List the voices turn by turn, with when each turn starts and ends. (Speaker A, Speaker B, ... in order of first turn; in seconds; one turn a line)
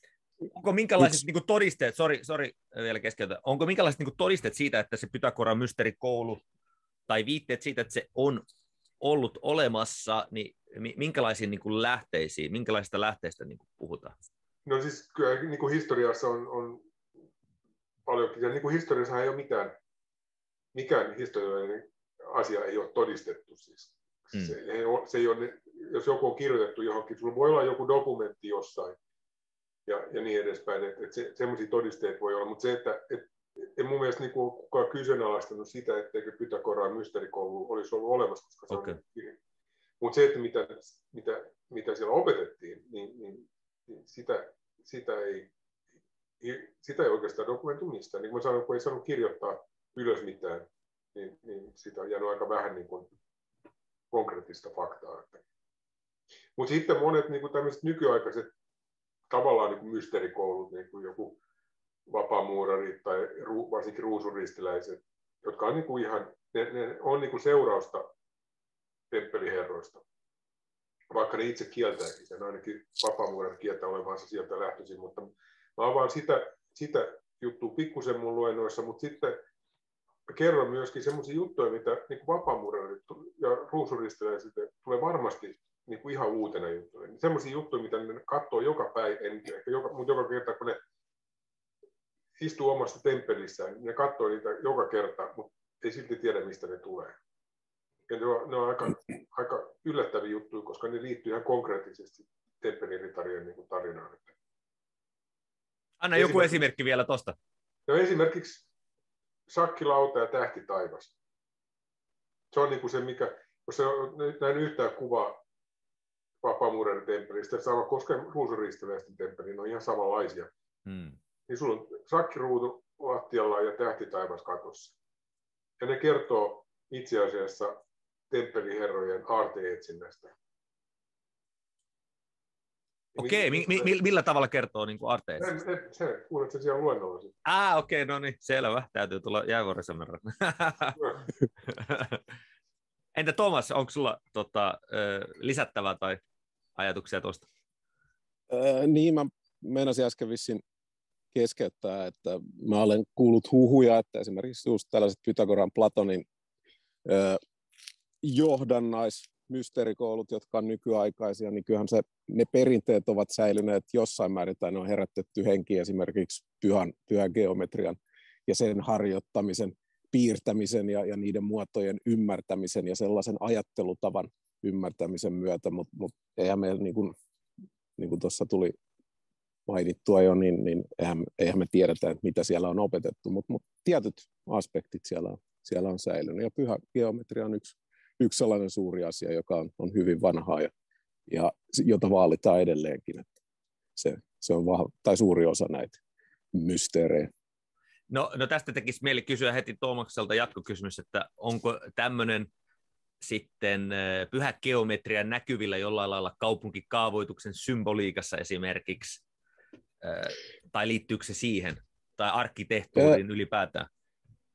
Speaker A: 0.5-6.4
Speaker A: 7.1-8.4
Speaker A: 9.0-14.1
Speaker B: 14.7-16.8
Speaker B: 18.1-19.8
Speaker B: 20.7-29.0
Speaker B: 29.9-39.4
Speaker A: 38.7-39.0
Speaker B: 40.0-45.5
Speaker B: 46.4-53.1
Speaker B: 54.1-55.4
Speaker B: 56.6-58.5
Speaker B: 59.3-61.4
Speaker B: 62.1-68.0
Speaker B: 69.1-70.0
Speaker B: 71.1-79.4
Speaker B: 80.3-90.8
Speaker B: 92.4-97.2
Speaker B: 98.1-104.3
Speaker A: 106.0-107.4
Speaker B: 106.1-106.6
Speaker B: 107.9-108.7
Speaker B: 109.5-111.2
Speaker B: 112.5-115.4
Speaker B: 116.4-120.5
Speaker A: 120.9-121.2
Speaker B: 121.5-125.0
Speaker B: 125.8-127.7
Speaker B: 128.3-130.3
Speaker B: 133.2-133.9
Speaker A: 133.2-135.5
Speaker B: 135.4-137.3
Speaker A: 137.4-141.1
Speaker A: 141.7-142.2
Speaker A: 143.2-146.2
Speaker A: 146.8-147.4
Speaker C: 148.5-150.6
Speaker C: 151.3-156.2
Speaker C: 157.1-157.4
Speaker C: 158.2-177.2
Speaker C: 178.0-178.8
Speaker C: 179.7-190.7
Speaker C: 191.3-193.3
Speaker C: 194.0-196.0
Speaker C: 196.5-197.3
Speaker A: 198.1-202.5
Speaker A: 203.2-209.2
Speaker A: 210.0-213.9